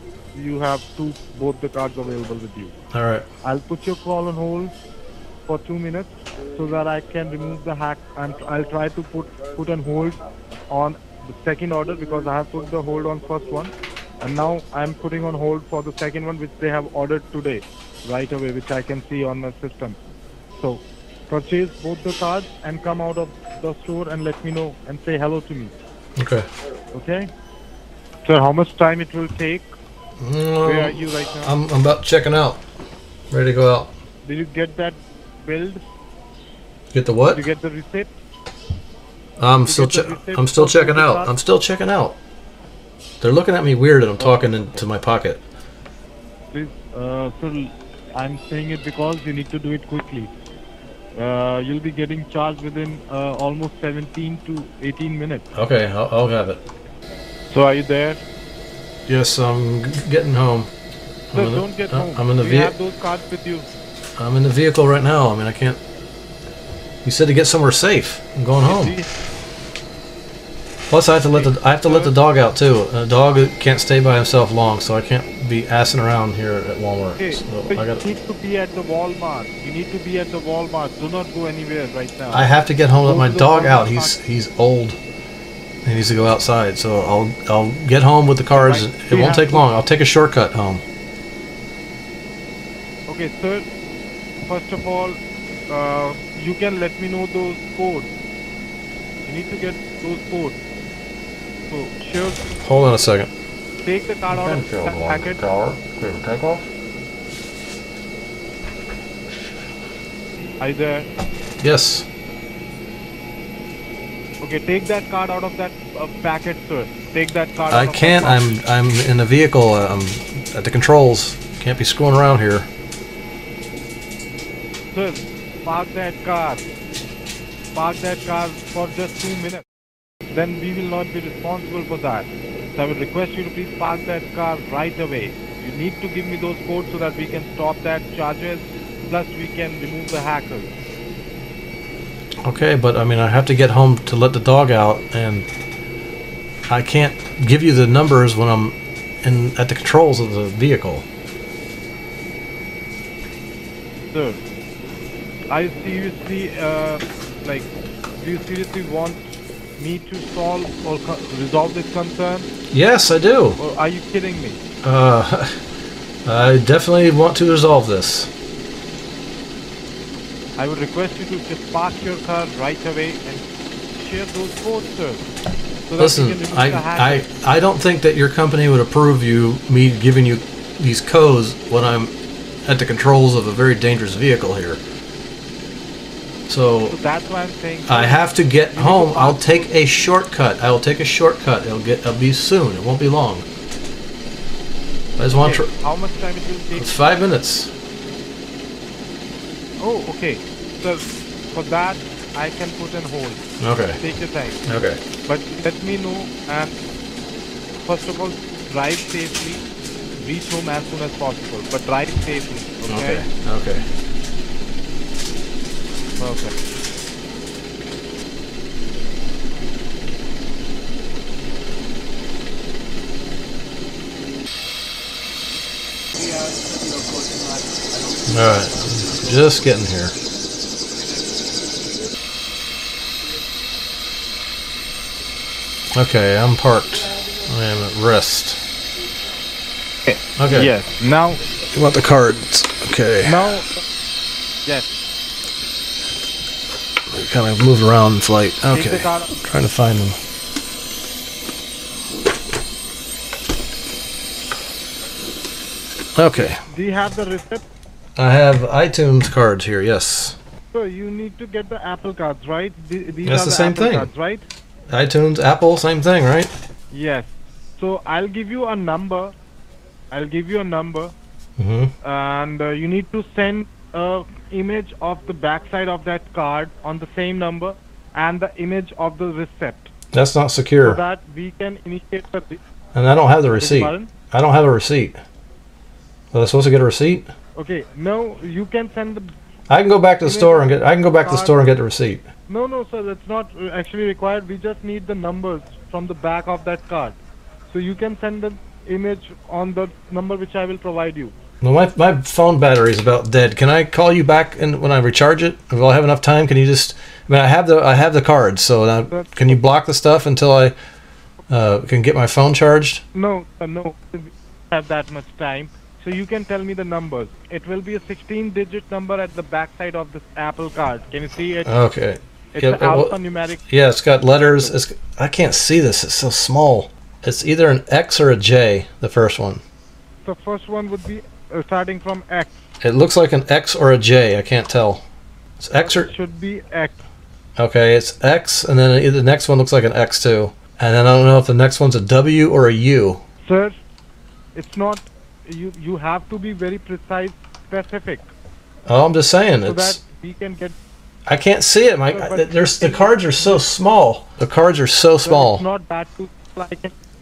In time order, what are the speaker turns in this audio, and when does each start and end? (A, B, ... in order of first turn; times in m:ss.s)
0:00.3-0:02.7 A
0:02.9-0:03.3 B
0:03.4-0:04.7 A
0:05.5-0:10.2 A
0:10.7-0:20.0 A
0:20.6-0:25.7 A
0:26.2-0:26.5 B
0:26.9-0:27.3 A
0:28.2-0:29.7 A
0:30.2-0:32.6 B
0:30.6-0:31.5 A
0:33.3-0:33.9 B
0:34.2-0:35.8 A
0:36.9-0:37.4 B
0:37.3-0:38.1 A
0:39.4-0:42.2 B
0:39.6-0:41.3 A
0:43.2-0:45.4 B
0:46.5-0:50.3 A
0:51.2-0:55.4 A
0:55.5-0:56.6 B
0:57.5-0:58.2 A
0:59.1-1:00.7 B
1:01.3-1:02.7 B
1:01.3-1:03.6 A
1:04.2-1:05.8 B
1:07.0-1:09.0 B
1:08.6-1:09.1 A
1:10.9-1:18.0 B
1:11.3-1:12.1 A
1:17.2-1:22.5 A
1:22.3-1:25.0 B
1:23.0-1:24.2 A
1:25.8-1:30.8 B
1:28.5-1:29.6 A
1:33.1-1:33.6 A
1:34.4-1:35.2 A
1:35.7-1:38.1 A
1:39.2-1:40.6 A
1:41.7-1:42.4 A
1:42.6-1:43.3 B
1:43.8-1:45.4 A
1:44.3-1:46.7 C
1:50.6-1:51.1 A
1:51.6-1:52.1 B
1:54.4-1:58.6 A
1:57.7-2:02.7 B
2:04.9-2:06.7 A
2:07.7-2:09.6 A
2:10.3-2:20.7 A
2:22.4-2:25.5 B
2:26.7-2:31.0 B
2:34.1-2:34.4 A
2:35.5-2:39.2 A
2:39.8-2:42.5 A
2:42.7-2:43.6 B
2:43.6-2:44.6 A
2:44.8-2:45.6 B
2:46.2-2:48.3 B
2:50.6-2:55.2 A
2:55.9-2:57.2 A
2:56.0-3:02.1 B
3:02.6-3:04.8 B
3:06.5-3:07.0 B
3:06.9-3:09.7 A
3:07.9-3:13.4 B
3:15.2-3:15.7 B
3:15.3-3:16.9 A
3:16.7-3:17.7 B
3:19.8-3:23.4 A
3:23.6-3:24.0 B
3:24.0-3:24.6 A
3:24.6-3:25.0 B
3:25.2-3:26.8 A
3:27.8-3:29.6 A
3:30.2-3:33.2 A
3:32.8-3:33.8 B
3:36.2-3:36.5 A
3:48.3-3:50.1 B
3:55.9-3:58.6 B
4:00.4-4:00.7 B
4:00.5-4:01.4 A
4:01.7-4:03.5 B
4:03.2-4:03.8 A
4:07.1-4:10.2 B
4:08.7-4:09.3 A
4:16.1-4:16.6 B
4:16.4-4:17.6 A
4:18.2-4:20.4 B
4:20.7-4:24.4 A
4:23.2-4:24.1 B
4:24.9-4:26.5 B
4:26.9-4:29.3 A
4:30.1-4:31.1 A
4:31.6-4:31.9 B
4:32.0-4:39.9 A
4:40.1-4:41.0 B
4:40.8-4:42.6 A
4:42.9-4:45.2 B
4:43.6-4:44.1 A
4:46.3-4:47.3 B
4:47.6-4:49.3 A
4:49.7-4:52.2 B
4:50.2-4:51.5 A
4:52.5-4:57.2 A
4:57.7-5:01.3 A
5:01.6-5:10.7 B
5:09.1-5:09.6 A
5:11.5-5:13.0 B
5:13.1-5:21.7 A
5:21.6-5:23.1 B
5:22.5-5:23.6 A
5:23.7-5:29.6 B
5:30.2-5:32.6 A
5:32.8-5:35.0 B
5:35.6-5:36.1 B
5:35.8-5:37.0 A
5:37.6-5:43.2 B
5:43.4-5:43.8 A
5:44.5-5:48.3 A
5:48.8-5:50.0 B
5:49.6-5:50.7 A
5:51.3-5:55.6 B
5:52.1-5:53.6 A
5:55.2-5:56.9 A